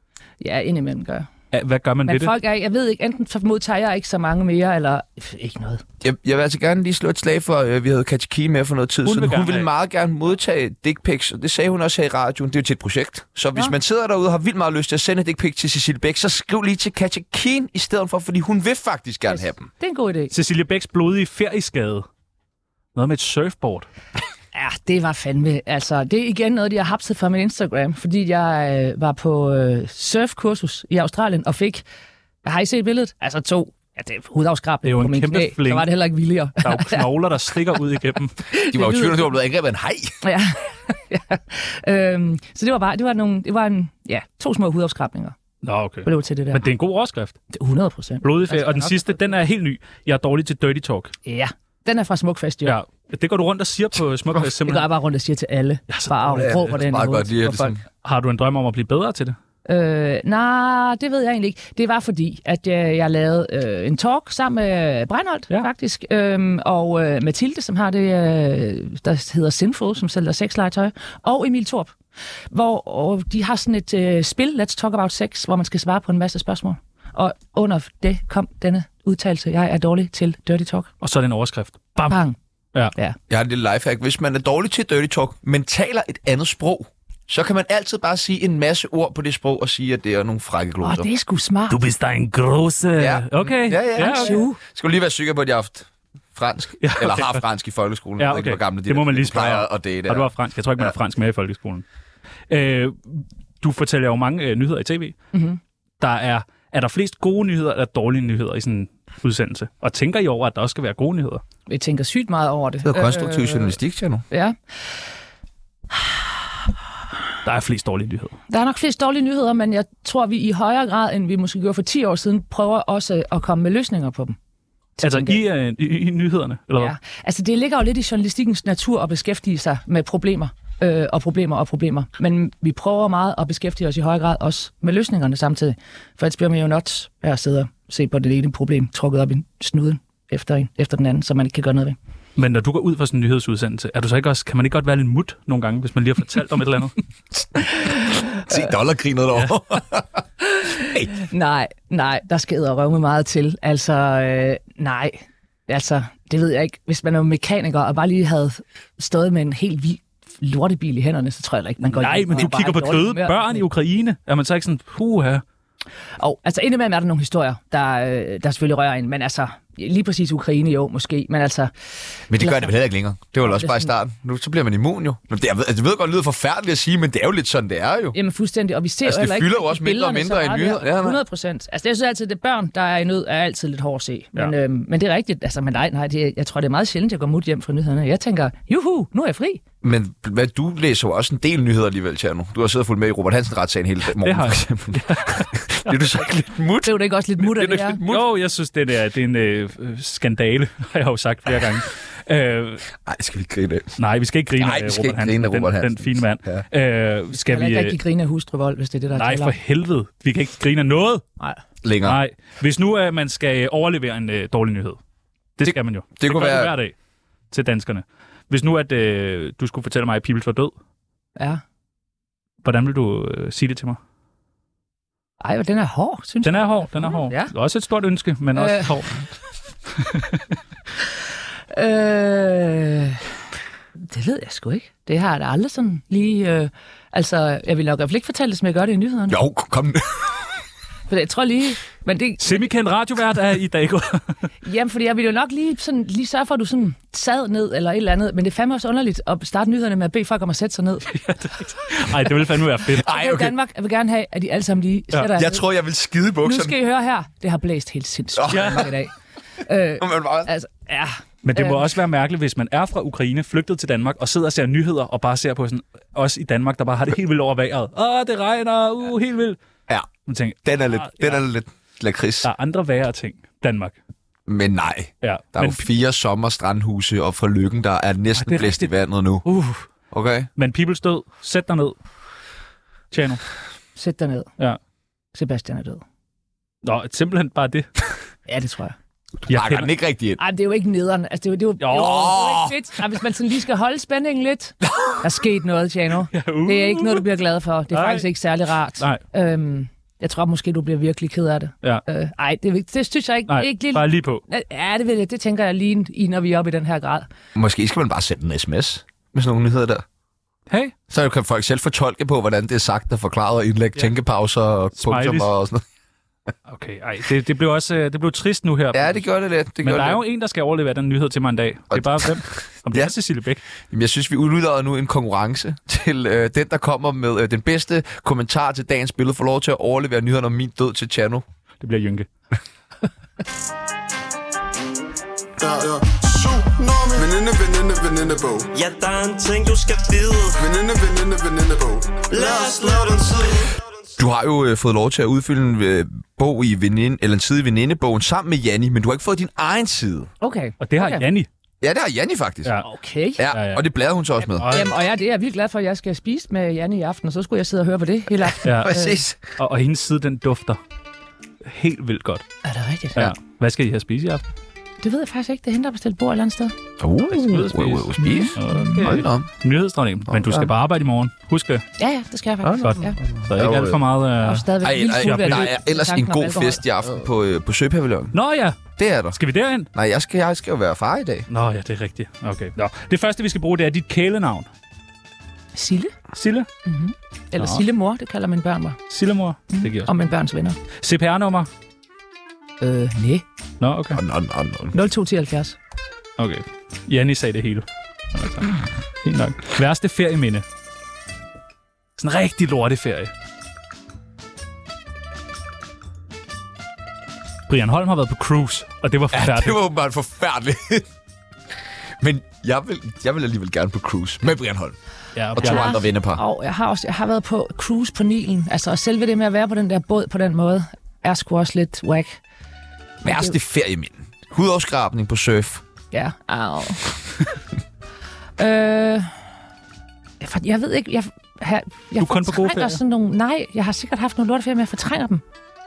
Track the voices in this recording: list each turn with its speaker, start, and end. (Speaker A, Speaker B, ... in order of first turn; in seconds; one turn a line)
Speaker A: 0.4-1.3
Speaker B: 1.5-2.3
Speaker A: 2.0-5.8
Speaker C: 6.0-19.7
Speaker B: 9.0-9.7
Speaker A: 19.3-20.3
Speaker B: 20.3-22.1
Speaker B: 22.9-23.9
Speaker A: 24.5-31.8
Speaker A: 32.4-37.0
Speaker B: 34.8-35.9
Speaker B: 36.6-38.4
Speaker A: 38.5-39.3
Speaker C: 38.7-40.2
Speaker A: 40.2-45.4
Speaker B: 45.6-47.4
Speaker A: 46.0-46.7
Speaker A: 47.5-49.2
Speaker B: 48.2-51.1
Speaker A: 51.2-52.8
Speaker B: 52.6-54.9
Speaker A: 54.6-57.8
Speaker B: 55.9-56.7
Speaker C: 56.3-57.8
Speaker B: 58.0-59.4
Speaker A: 59.6-71.9
Speaker A: 72.5-80.9
Speaker B: 81.0-82.2
Speaker A: 82.1-82.4
Speaker C: 83.3-91.1
Speaker A: 90.8-91.8
Speaker B: 91.7-94.4
Speaker C: 93.0-100.9
Speaker A: 94.0-94.6
Speaker B: 96.8-97.4
Speaker B: 98.2-101.8
Speaker B: 102.5-105.2
Speaker A: 105.3-105.6
Speaker B: 106.0-111.4
Speaker A: 111.7-113.8
Speaker C: 112.8-114.2
Speaker A: 114.3-114.5
Speaker B: 117.4-118.3
Speaker A: 118.5-124.4
Speaker A: 125.0-125.4
Speaker B: 125.0-126.9
Speaker A: 126.8-142.0
Speaker B: 142.3-146.9
Speaker A: 147.8-148.4
Speaker C: 148.0-150.2
Speaker A: 150.5-163.6
Speaker B: 162.0-165.4
Speaker A: 166.2-171.7
Speaker C: 172.3-178.2
Speaker A: 172.3-172.7
Speaker A: 173.4-173.9
Speaker A: 178.1-189.6
Speaker C: 179.0-181.2
Speaker C: 189.8-198.3
Speaker B: 194.2-196.0
Speaker A: 196.8-198.0
Speaker B: 198.1-202.8
Speaker C: 203.0-204.0
Speaker B: 204.0-208.0
Speaker C: 204.6-206.6
Speaker A: 207.4-209.5
Speaker B: 209.1-211.2
Speaker C: 211.8-212.2
Speaker B: 212.0-215.0
Speaker B: 215.6-216.9
Speaker C: 215.6-216.7
Speaker B: 217.5-220.7
Speaker B: 222.6-224.0
Speaker A: 225.4-227.5
Speaker B: 226.4-229.2
Speaker A: 228.5-229.0
Speaker B: 230.0-230.4
Speaker A: 231.7-233.2
Speaker A: 234.0-239.4
Speaker C: 239.3-240.4
Speaker A: 241.1-242.6
Speaker B: 242.4-244.4
Speaker A: 244.6-251.1
Speaker B: 251.1-253.1
Speaker C: 252.9-253.5
Speaker A: 253.0-255.6
Speaker C: 255.2-256.8
Speaker A: 256.4-261.9
Speaker C: 258.4-258.9
Speaker B: 258.5-258.9
Speaker C: 260.0-260.5
Speaker B: 261.4-269.6
Speaker B: 270.2-271.4
Speaker C: 270.6-272.5
Speaker B: 272.4-274.0
Speaker C: 274.5-279.4
Speaker B: 275.2-275.8
Speaker B: 278.4-278.9
Speaker B: 279.4-279.9
Speaker C: 280.1-280.5
Speaker B: 280.6-282.0
Speaker B: 283.1-283.4
Speaker A: 283.9-284.5
Speaker A: 285.3-286.0
Speaker B: 286.8-287.9
Speaker A: 288.5-288.9
Speaker B: 289.5-289.9
Speaker C: 289.5-290.4
Speaker A: 290.4-307.3
Speaker B: 291.8-292.4
Speaker C: 291.9-292.8
Speaker B: 296.3-297.2
Speaker B: 297.9-298.3
Speaker B: 303.5-304.4
Speaker C: 307.5-310.0
Speaker B: 310.7-310.9
Speaker C: 311.1-315.8
Speaker B: 315.0-315.5
Speaker B: 316.7-319.2
Speaker C: 318.9-320.2
Speaker B: 319.8-323.6
Speaker C: 321.9-323.1
Speaker C: 323.9-331.4
Speaker B: 331.8-332.3
Speaker D: 335.8-338.6
Speaker E: 338.6-340.8
Speaker D: 340.7-342.0
Speaker E: 342.1-343.7
Speaker C: 344.2-350.3
Speaker A: 350.4-351.2
Speaker B: 350.8-351.5
Speaker C: 351.8-352.7
Speaker A: 352.8-353.4
Speaker C: 353.4-354.7
Speaker B: 353.5-353.9
Speaker B: 354.6-354.9
Speaker A: 354.6-359.2
Speaker B: 358.6-359.0
Speaker C: 358.7-359.6
Speaker B: 359.6-360.8
Speaker B: 361.6-362.4
Speaker A: 362.6-363.3
Speaker B: 363.1-364.4
Speaker A: 365.0-366.8
Speaker C: 367.0-369.5
Speaker B: 367.3-371.8
Speaker A: 368.2-369.1
Speaker C: 370.3-370.6
Speaker A: 372.0-373.2
Speaker B: 372.8-375.7
Speaker C: 373.4-374.0
Speaker A: 374.4-376.8
Speaker C: 374.8-378.4
Speaker B: 378.3-379.9
Speaker C: 378.9-379.4
Speaker C: 379.9-381.5
Speaker B: 381.5-384.7
Speaker A: 385.7-386.1
Speaker B: 386.3-386.7
Speaker A: 386.9-389.0
Speaker B: 387.6-387.8
Speaker B: 389.1-390.2
Speaker A: 389.7-390.8
Speaker B: 390.9-391.7
Speaker A: 392.8-393.4
Speaker B: 393.8-394.2
Speaker C: 394.1-394.9
Speaker A: 394.9-395.8
Speaker B: 396.4-400.6
Speaker B: 402.2-403.3
Speaker B: 407.7-409.8
Speaker C: 409.3-411.1
Speaker C: 412.2-414.9
Speaker B: 415.4-416.0
Speaker C: 415.6-416.4
Speaker A: 415.6-422.4
Speaker C: 423.2-425.8
Speaker A: 423.2-423.5
Speaker A: 426.1-427.1
Speaker A: 428.6-429.4
Speaker A: 430.4-435.4
Speaker B: 432.2-433.0